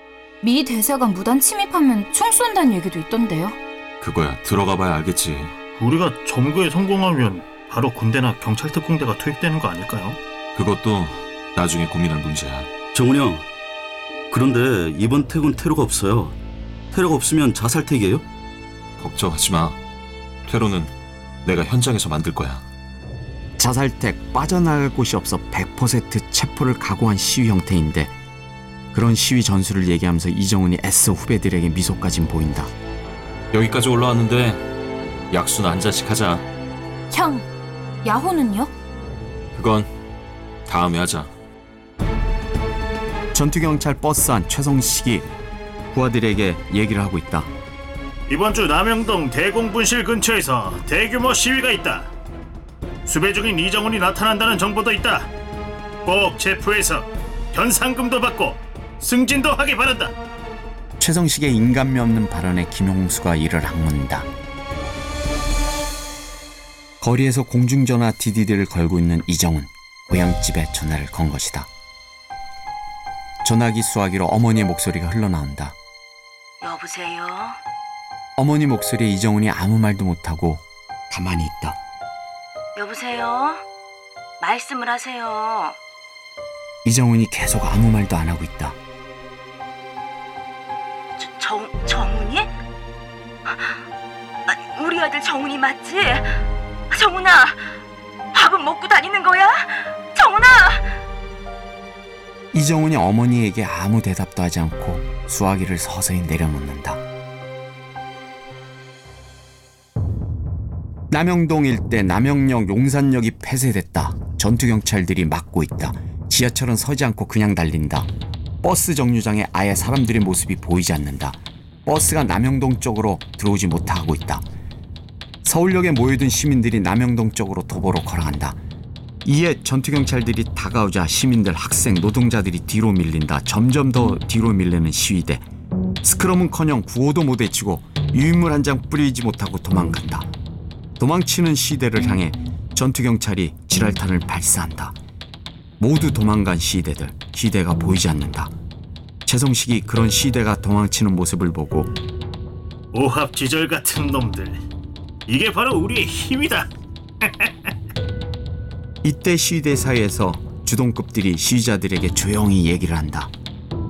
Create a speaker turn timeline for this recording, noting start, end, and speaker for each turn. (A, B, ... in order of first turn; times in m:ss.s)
0:00.4-0:03.6 A
0:04.0-0:05.6 B
0:05.8-0:10.2 C
0:10.6-0:12.7 B
0:12.9-0:13.5 D
0:14.3-0:16.4 D
0:16.9-0:18.3 D
0:19.0-0:19.8 B
0:20.5-0:20.9 B
0:21.4-0:22.6 B
0:23.6-0:28.1 E
0:28.9-0:32.7 E
0:33.5-0:34.6 B
0:35.3-0:36.5 B
0:37.1-0:37.4 A
0:38.1-0:38.7 A
0:39.5-0:39.9 B
0:40.7-0:41.3 B
0:43.3-0:45.3 E
0:45.9-0:47.5 E
0:48.3-0:52.1 C
0:53.1-0:55.3 C
0:56.0-1:00.2 C
1:01.0-1:04.3 E
1:07.0-1:11.7 E
1:13.4-1:15.8 E
1:16.6-1:17.6 F
1:18.4-1:21.8 E
1:22.8-1:23.6 F
1:24.4-1:25.8 F
1:26.8-1:28.8 E
1:31.2-1:32.5 F
1:33.5-1:33.8 F
1:34.5-1:37.7 F
1:38.3-1:41.0 F
1:42.5-1:47.0 E
1:51.1-1:58.1 E
1:58.6-2:04.4 E
2:05.4-2:08.6 E
2:09.2-2:15.5 E
2:16.0-2:20.3 E
2:21.0-2:25.0 E
2:25.8-2:28.5 E
2:29.3-2:31.9 E
2:32.9-2:34.6 C
2:35.3-2:36.7 C
2:37.2-2:37.7 C
2:39.0-2:43.3 E